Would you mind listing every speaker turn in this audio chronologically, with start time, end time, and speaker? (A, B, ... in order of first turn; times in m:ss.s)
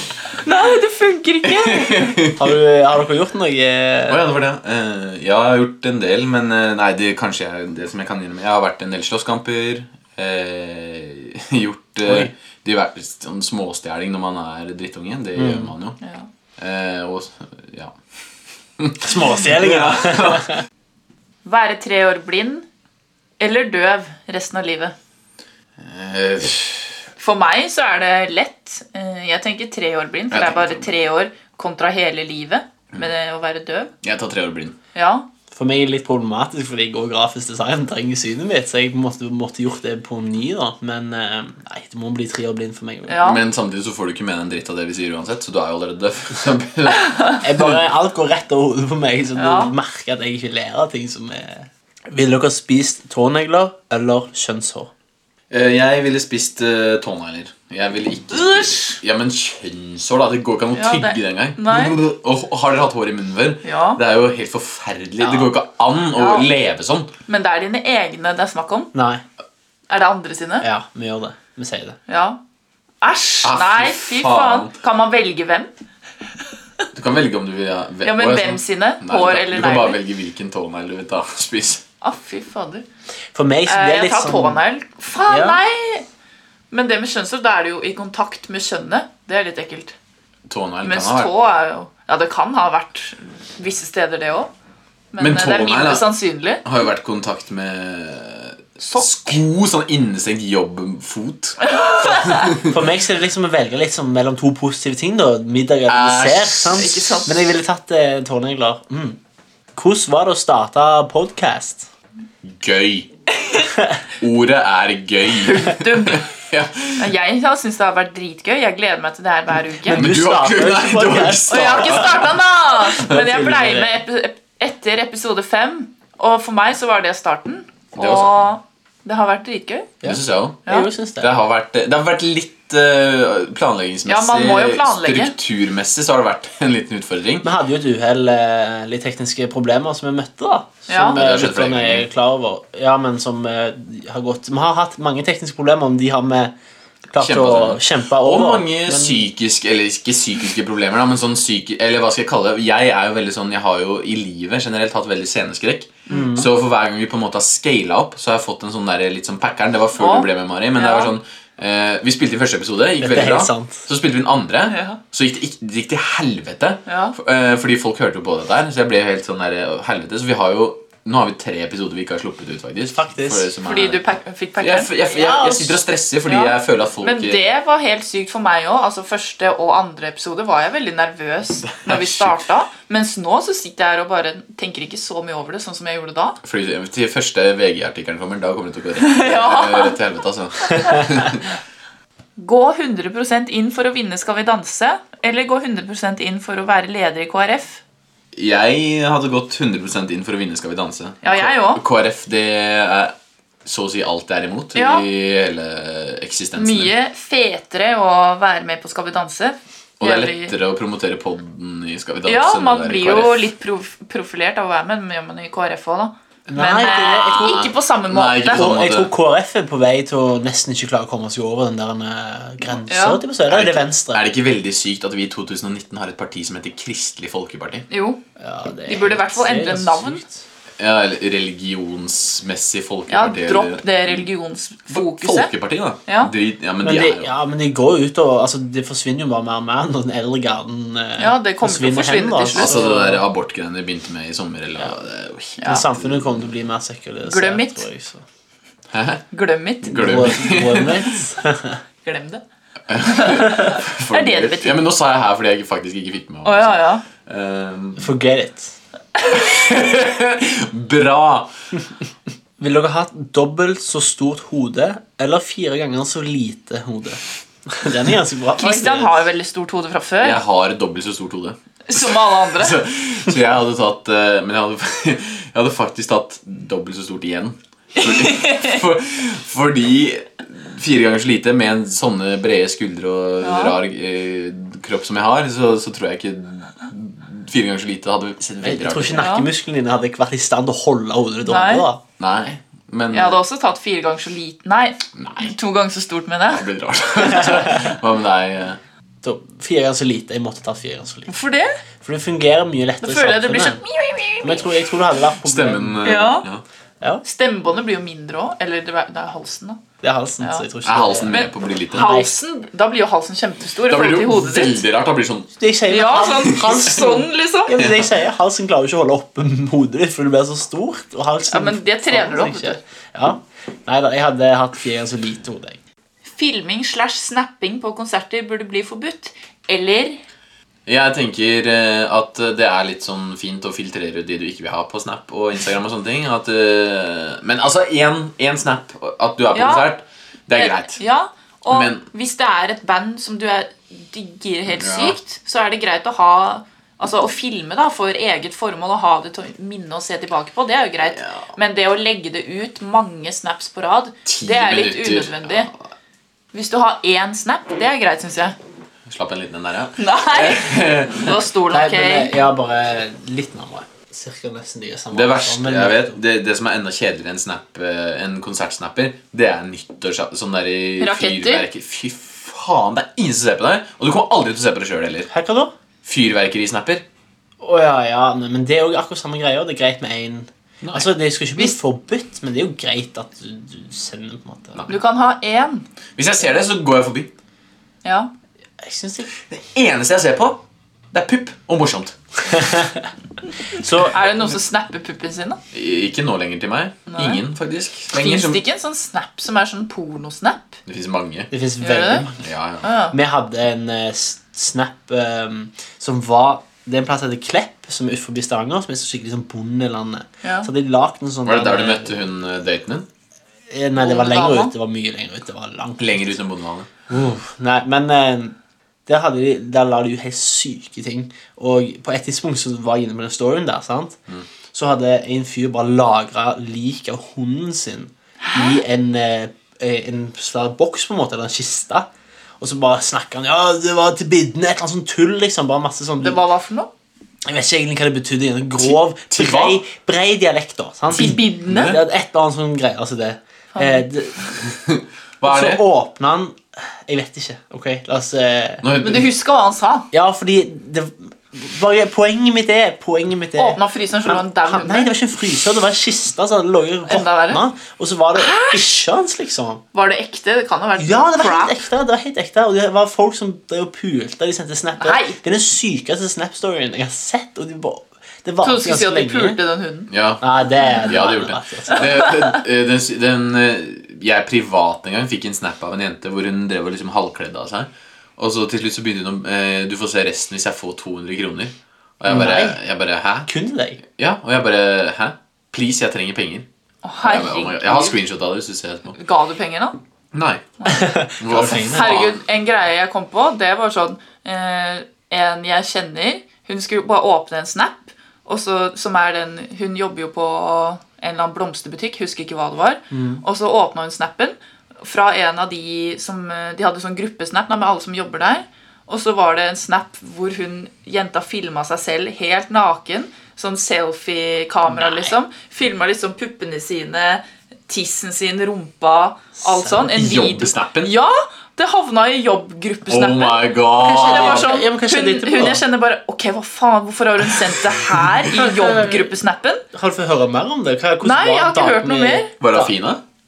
0:00.4-0:02.2 A
0:01.4-0:02.5 B
0:02.4-0:04.2 C
0:04.1-0:16.0 B
0:12.0-0:12.3 C
0:15.4-0:15.7 C
0:16.0-0:16.3 A
0:16.6-0:17.9 B
0:18.8-0:20.6 B
0:19.0-0:20.5 C
0:21.4-0:22.6 A
0:23.4-0:24.9 A
0:25.8-0:26.9 B
0:27.2-0:33.9 A
0:30.3-0:30.9 B
0:34.0-0:34.8 B
0:34.9-0:35.3 A
0:35.5-0:43.2 C
0:43.1-0:43.4 A
0:43.2-0:47.7 B
0:47.4-0:54.9 C
0:49.4-0:49.7 A
0:55.5-1:07.1 B
0:58.3-0:59.0 A
1:00.7-1:02.0 A
1:03.6-1:04.0 A
1:06.1-1:06.5 A
1:07.3-1:08.9 A
1:08.9-1:09.2 C
1:09.9-1:10.7 A
1:10.6-1:12.0 C
1:12.1-1:12.4 A
1:13.0-1:15.7 A
1:13.4-1:14.7 B
1:16.9-1:21.8 B
1:18.0-1:20.0 A
1:22.0-1:22.8 A
1:23.3-1:24.6 C
1:23.6-1:26.0 A
1:25.3-1:25.6 C
1:26.7-1:29.9 A
1:30.5-1:31.3 B
1:30.8-1:34.5 A
1:35.1-1:36.6 A
1:35.2-1:36.0 B
1:36.6-1:42.8 B
1:38.8-1:39.4 A
1:41.6-1:42.6 A
1:42.6-1:49.2 C
1:45.9-1:47.1 B
1:46.7-1:47.5 A
1:49.7-1:51.9 C
1:52.4-1:53.1 B
1:54.2-1:57.0 B
1:55.3-1:56.3 A
1:57.0-2:00.0 A
1:59.8-2:02.3 C
1:59.9-2:02.4 B
2:01.5-2:09.9 A
2:02.9-2:04.0 C
2:08.0-2:08.3 B
2:10.0-2:11.3 C
2:10.0-2:10.6 B
2:11.2-2:17.5 B
2:14.1-2:15.3 A
2:17.4-2:26.5 C
2:20.9-2:21.2 A
2:21.0-2:22.1 B
2:27.1-2:29.3 C
2:27.2-2:54.0 B
2:36.1-2:36.4 A
2:36.1-2:36.5 C
2:40.0-2:41.1 A
2:43.0-2:43.8 C
2:44.7-2:45.0 A
2:46.9-2:47.1 A
2:52.9-2:53.5 C
2:53.6-2:55.7 A
2:54.6-2:57.4 B
2:56.2-3:06.4 A
3:01.7-3:02.4 B
3:06.4-3:11.5 B
3:09.0-3:10.0 A
3:10.7-3:11.1 A
3:12.4-3:17.8 A
3:18.3-3:23.1 B
3:21.2-3:21.8 A
3:23.6-3:26.9 B
3:24.7-3:25.0 A
3:26.6-3:30.5 A
3:30.0-3:33.5 B
3:32.2-3:38.8 A
3:36.5-3:37.7 C
3:36.9-3:39.1 B
3:38.4-3:44.3 C
3:42.9-3:43.2 A
3:43.5-3:47.9 B
3:47.9-3:48.2 A
3:48.4-3:50.4 C
3:48.8-3:50.2 A
3:50.8-3:54.2 B
3:53.1-3:55.5 A
3:54.9-3:57.3 B
3:56.0-3:56.3 A
3:56.8-4:03.2 C
4:01.2-4:02.9 A
4:02.5-4:06.4 B
4:05.6-4:05.8 A
4:05.6-4:08.2 C
4:07.2-4:07.8 A
4:08.9-4:09.2 B
4:09.3-4:10.3 A
4:09.8-4:11.2 B
4:09.8-4:11.8 C
4:12.0-4:12.4 A
4:12.9-4:18.1 B
4:13.0-4:14.8 A
4:16.4-4:17.0 A
4:18.0-4:18.7 C
4:19.3-4:21.5 B
4:22.6-4:29.2 C
4:28.6-4:30.4 A
4:30.2-4:49.3 B
4:31.9-4:32.8 A
4:38.0-4:38.8 A
4:43.4-4:43.8 A
4:48.6-4:52.0 C
4:49.2-4:49.5 A
4:51.4-4:51.8 A
4:52.2-4:53.4 B
4:53.1-4:56.7 A
4:55.2-4:55.5 B
4:56.5-4:58.8 B
4:59.2-5:01.3 C
5:01.3-5:01.8 A
5:02.0-5:03.8 C
5:03.0-5:04.7 A
5:04.4-5:06.1 C
5:05.4-5:06.6 B
5:06.0-5:06.5 A
5:07.2-5:09.8 A
5:10.0-5:12.3 C
5:10.4-5:10.7 A
5:10.8-5:12.2 B
5:11.3-5:14.8 A
5:13.9-5:15.5 B
5:15.5-5:25.8 C
5:15.9-5:17.9 A
5:16.4-5:16.8 B
5:21.5-5:22.8 A
5:26.3-5:30.2 A
5:30.8-5:41.0 B
5:39.5-5:39.9 A
5:40.5-5:55.7 A
5:41.7-5:42.0 B
5:44.7-5:45.2 B
5:51.1-5:51.4 B
5:54.2-5:55.7 B
5:56.5-5:58.6 A
5:59.1-6:01.3 B
6:00.0-6:02.4 A
6:01.7-6:06.2 C
6:05.1-6:15.3 B
6:11.0-6:11.6 A
6:15.3-6:15.7 C
6:16.0-6:17.0 B
6:17.6-6:24.8 C
6:20.8-6:21.1 B
6:24.9-6:25.8 A
6:26.2-6:27.3 B
6:28.0-6:28.3 A
6:28.8-6:29.3 C
6:29.5-6:30.6 B
6:31.1-6:32.2 B
6:32.5-6:33.1 C
6:33.7-6:34.2 C
6:34.0-6:35.6 A
6:35.7-6:38.6 B
6:37.1-6:37.4 A
6:38.1-6:40.8 A
6:40.8-6:41.5 B
6:41.5-6:42.4 C
6:41.8-6:42.3 A
6:42.4-6:42.9 B
6:42.8-6:43.2 A
6:43.1-6:52.2 C
6:50.4-6:50.7 A
6:51.4-6:53.1 B
6:53.7-6:56.3 C
6:54.0-6:54.7 A
6:56.0-6:56.9 B
6:57.1-6:58.5 C
6:59.0-7:04.2 C
7:04.7-7:12.1 C
7:08.4-7:08.8 A
7:12.6-7:16.4 C
7:16.2-7:16.9 A
7:17.4-7:24.7 C
7:18.8-7:19.8 B
7:21.1-7:22.0 A
7:21.7-7:22.0 B
7:23.7-7:24.1 A
7:24.8-7:25.8 B
7:25.4-7:28.8 C
7:28.8-7:29.3 B
7:29.0-7:30.1 A
7:30.1-7:39.8 C
7:33.6-7:35.1 A
7:37.1-7:37.6 A
7:38.3-7:38.9 A
7:39.9-7:41.8 A
7:41.0-7:49.6 C
7:45.0-7:45.4 A
7:48.6-7:50.1 A
7:50.1-7:50.4 B
7:50.4-7:52.1 C
7:51.0-8:03.5 B
7:52.0-7:52.3 A
8:02.2-8:02.8 C
8:03.4-8:04.0 C
8:04.1-8:06.7 B
8:07.0-8:08.2 A
8:07.2-8:09.2 B
8:09.1-8:10.0 A
8:10.3-8:10.6 B
8:10.8-8:11.0 A
8:10.8-8:12.2 C
8:11.4-8:12.4 B
8:11.6-8:49.8 A
8:23.1-8:23.4 C
8:39.6-8:40.0 C
8:40.0-8:41.1 B
8:43.1-8:44.7 B
8:44.0-8:45.8 C
8:48.5-8:49.3 C
8:49.9-8:52.9 C
8:51.2-8:52.5 A
8:52.6-8:53.2 B